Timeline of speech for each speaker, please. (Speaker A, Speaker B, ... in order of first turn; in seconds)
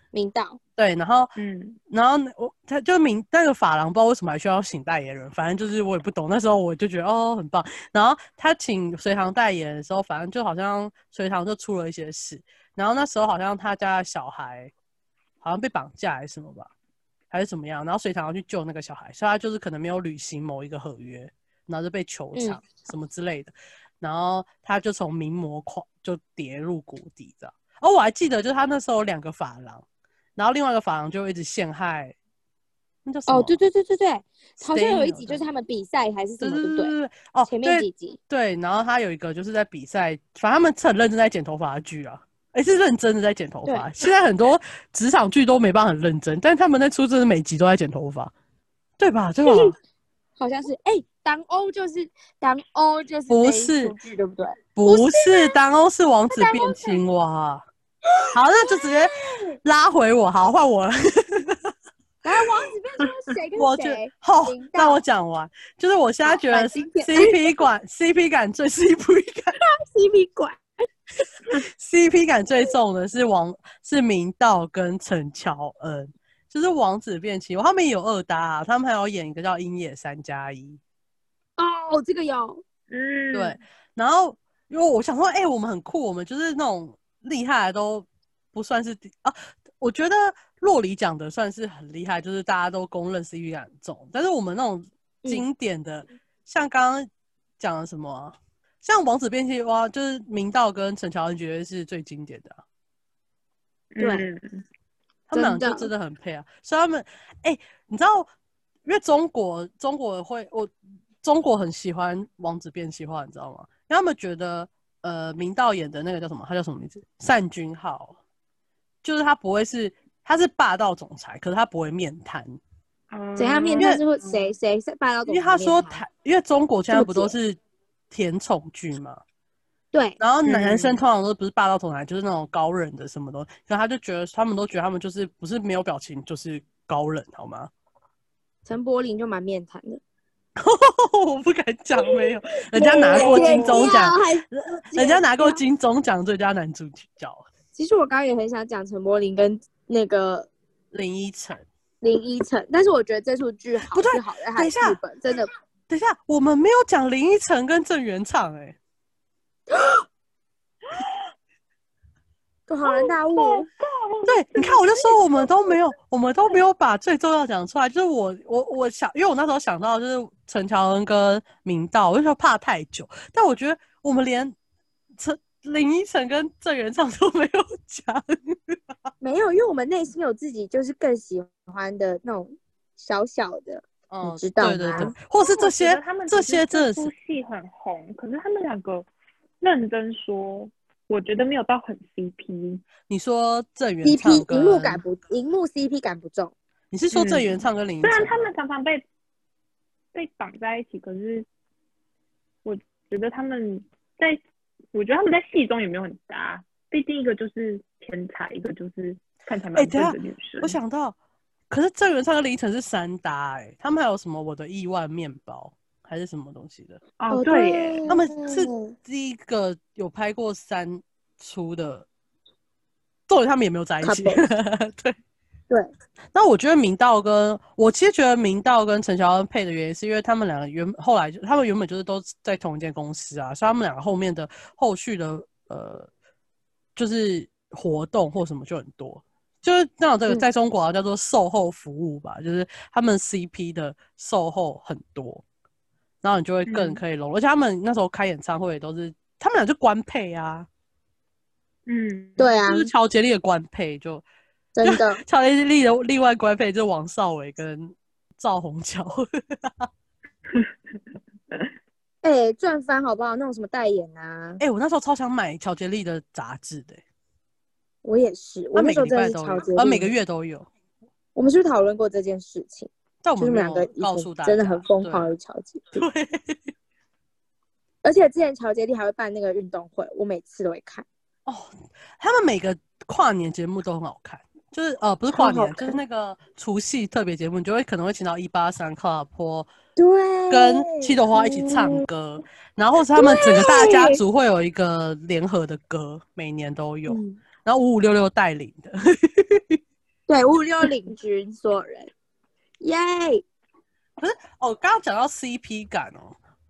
Speaker A: 0.1-0.6, 22.4-22.6, 33.3-36.9, 37.5-38.2, 49.4-49.8, 50.4-55.6, 56.3-57.0, 58.2-59.5, 62.2-65.0, 66.2-67.4, 69.6-70.6, 81.6-82.6, 104.0-104.3, 105.3-105.9, 123.4-126.0, 126.9-127.3, 129.9-130.2, 138.7-140.0, 142.8-145.6, 147.8-150.5, 152.0-155.5, 159.7-160.1, 162.7-163.7, 179.2-185.2, 194.0-196.5, 217.3-218.9, 224.0-224.4, 252.4-252.9, 254.8-255.2, 262.2-264.6, 268.0-270.1, 271.4-276.0, 278.0-281.1, 285.3-286.0, 290.0-292.0, 293.1-294.2, 297.1-297.4, 300.3-302.1, 302.8-303.4
Speaker B: 0.8-1.3, 1.9-14.7, 15.4-16.7, 17.3-29.9, 30.4-32.1, 33.0-33.6, 34.6-35.4, 36.4-48.3, 49.0-49.8, 53.3-54.0, 54.8-57.6, 58.3-61.7, 63.6-69.6, 71.5-80.8, 83.3-97.1, 97.6-102.6, 105.3-108.3, 108.8-110.7, 111.2-118.2, 119.0-122.6, 125.3-127.6, 128.1-129.2, 130.2-137.7, 140.6-147.5, 150.9-151.7, 153.9-155.0, 155.9-158.8, 164.3-174.6, 175.2-178.8, 184.1-187.1, 193.1-195.0, 196.9-198.5, 209.8-211.2, 211.7-217.0, 218.1-222.1, 223.3-225.2, 226.3-236.1, 237.0-245.4, 246.2-250.7, 252.7-254.2, 254.8-259.9, 264.6-267.0, 268.7-270.7, 273.2-275.3, 275.9-276.7, 281.5-289.7, 290.5-299.8, 304.2-306.4
Speaker C: 1.4-1.8, 82.9-83.6, 103.9-104.6, 123.1-124.4, 130.4-131.0, 142.9-143.8, 162.8-165.7, 185.3-189.1, 189.6-192.8, 197.1-199.0, 200.1-201.5, 202.6-204.4, 204.9-210.8, 217.2-218.0, 246.7-247.0, 251.9-252.6